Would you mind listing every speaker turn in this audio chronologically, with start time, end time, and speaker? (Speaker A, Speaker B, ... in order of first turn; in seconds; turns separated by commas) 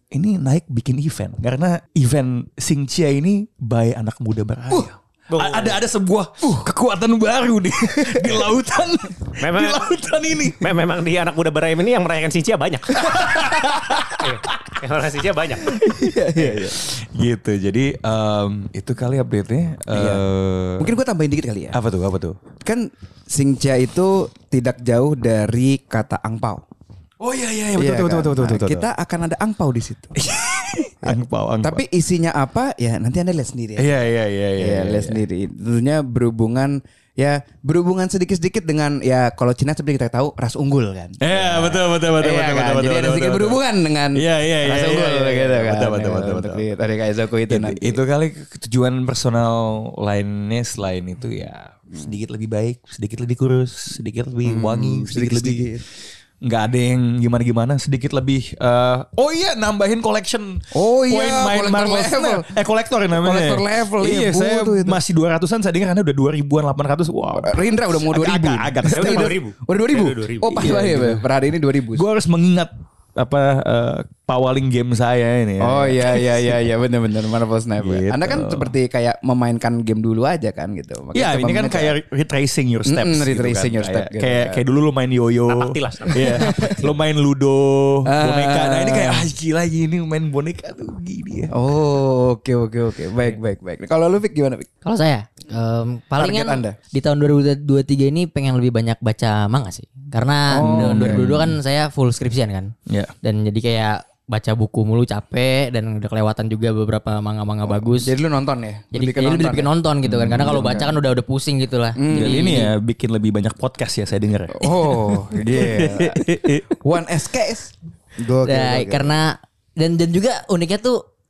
Speaker A: 0.1-10.7, Speaker B: 5.3-5.8, Speaker C: 8.1-8.5, Speaker B: 9.4-9.9, Speaker B: 10.6-13.2, Speaker A: 13.0-14.7, Speaker C: 13.2-14.0, Speaker B: 14.2-15.8, Speaker C: 15.8-16.8, Speaker A: 16.4-20.9, Speaker C: 19.9-20.2, Speaker C: 20.8-21.8, Speaker A: 21.7-22.4, Speaker C: 22.6-26.6, Speaker A: 27.2-28.9, Speaker C: 27.8-30.2, Speaker A: 30.2-31.8, Speaker C: 31.0-33.9, Speaker A: 33.8-35.2, Speaker C: 34.6-48.0, Speaker A: 41.2-43.6, Speaker A: 44.1-46.6, Speaker A: 47.5-55.7, Speaker C: 54.4-55.8, Speaker A: 56.4-69.4, Speaker C: 60.7-62.5, Speaker C: 63.1-65.0, Speaker C: 67.4-72.0, Speaker B: 68.9-70.7, Speaker A: 70.5-71.2, Speaker A: 72.0-76.6, Speaker C: 75.6-82.0, Speaker A: 77.8-78.7, Speaker A: 81.1-91.5, Speaker C: 82.9-84.6, Speaker B: 85.5-87.0, Speaker C: 86.2-86.8, Speaker C: 88.0-89.3, Speaker C: 91.5-94.7, Speaker D: 94.8-102.7, Speaker C: 96.2-96.8, Speaker C: 100.5-101.4, Speaker A: 100.6-101.5, Speaker D: 103.2-108.1, Speaker C: 107.7-109.7, Speaker D: 108.9-112.7, Speaker A: 110.0-110.9, Speaker C: 110.2-111.0, Speaker C: 112.0-112.7, Speaker A: 112.1-116.7, Speaker C: 114.5-119.2, Speaker D: 118.5-121.0